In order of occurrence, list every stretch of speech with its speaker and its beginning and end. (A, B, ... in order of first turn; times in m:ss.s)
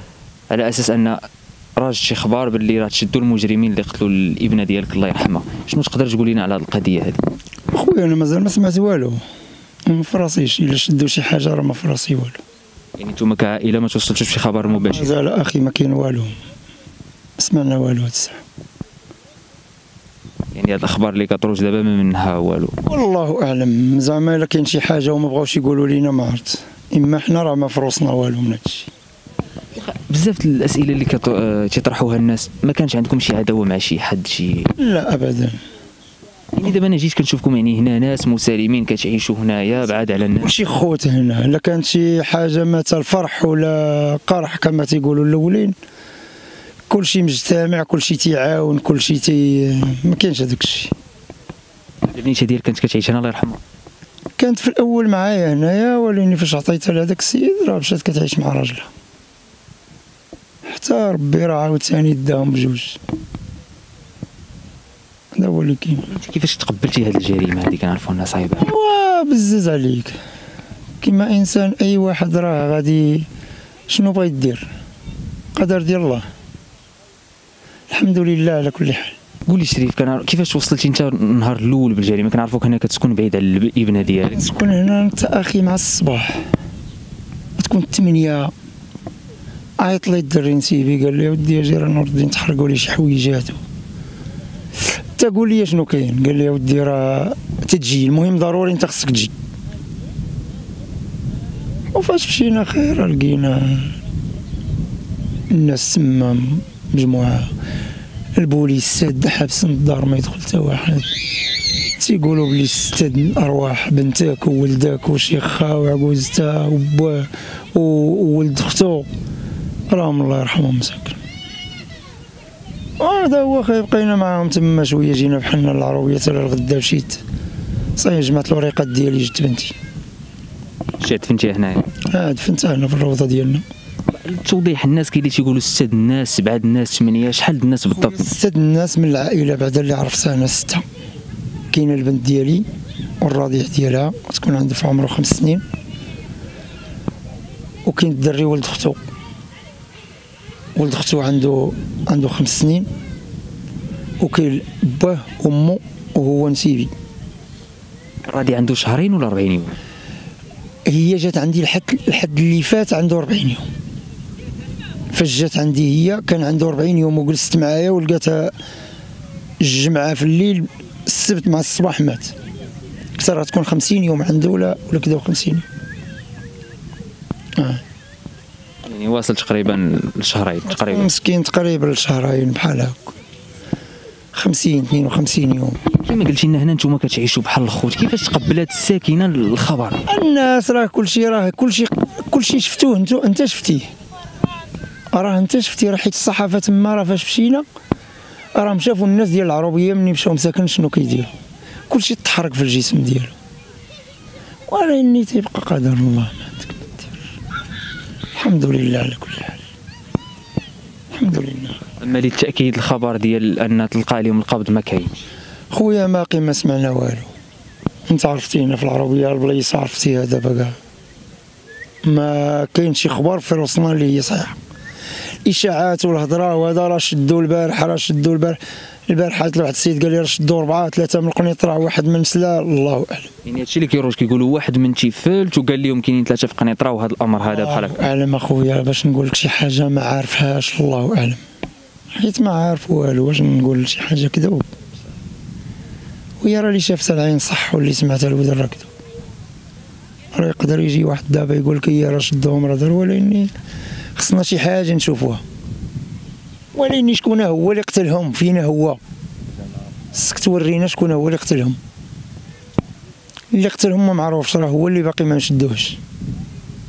0:00.5-0:01.2 A
0:01.8-0:07.2 A
0:07.7-0:09.2 B
0:09.9-0:12.4 B
0:13.0-0:15.2 A
0:14.8-0:16.3 B
0:17.4-0:18.4 B
0:20.5-0:22.8 A
0:22.9-0:28.9 B
0:29.8-0:34.7 A
0:34.8-0:35.6 B
0:36.6-0:40.5 A
0:40.4-0:45.8 B
0:46.9-0:51.0 B
0:52.1-0:53.6 A
0:54.4-0:58.9 B
1:00.7-1:03.0 B
1:05.4-1:06.1 B
1:06.1-1:08.7 A
1:08.6-1:10.2 B
1:11.0-1:13.3 B
1:13.9-1:14.7 B
1:15.6-1:16.2 B
1:17.9-1:19.2 B
1:19.5-1:24.4 A
1:24.3-1:26.4 B
1:27.6-1:28.5 B
1:29.8-1:33.6 B
1:35.2-1:39.3 B
1:41.9-1:44.0 B
1:45.5-1:47.5 B
1:48.4-1:51.1 B
1:52.0-1:59.1 B
1:59.9-2:01.2 B
2:03.0-2:07.2 B
2:08.0-2:09.7 B
2:11.0-2:11.9 A
2:12.1-2:13.6 B
2:14.1-2:18.3 A
2:18.0-2:20.8 B
2:21.7-2:22.7 B
2:23.2-2:25.6 B
2:27.9-2:29.0 B
2:30.8-2:32.9 B
2:34.2-2:36.9 B
2:38.3-2:39.8 A
2:40.9-2:43.7 B
2:45.1-2:48.5 B
2:49.6-2:52.3 B
2:53.2-2:55.6 B
2:58.8-3:01.1 A
3:00.7-3:03.1 B
3:04.4-3:05.8 B
3:05.9-3:10.0 A
3:10.1-3:13.9 B
3:15.1-3:17.7 B
3:18.6-3:21.3 B
3:21.9-3:23.4 B
3:24.7-3:27.2 B
3:28.4-3:29.6 B
3:31.1-3:31.8 B
3:32.0-3:35.2 A
3:35.7-3:37.3 B
3:38.1-3:40.8 B
3:42.0-3:44.6 B
3:45.4-3:53.3 B
3:53.4-3:58.0 A
3:57.4-4:01.4 B
4:02.1-4:04.7 B
4:06.4-4:08.9 B
4:10.3-4:13.5 B
4:14.2-4:15.4 B
4:16.7-4:19.0 B
4:20.1-4:21.8 B
4:23.5-4:26.0 B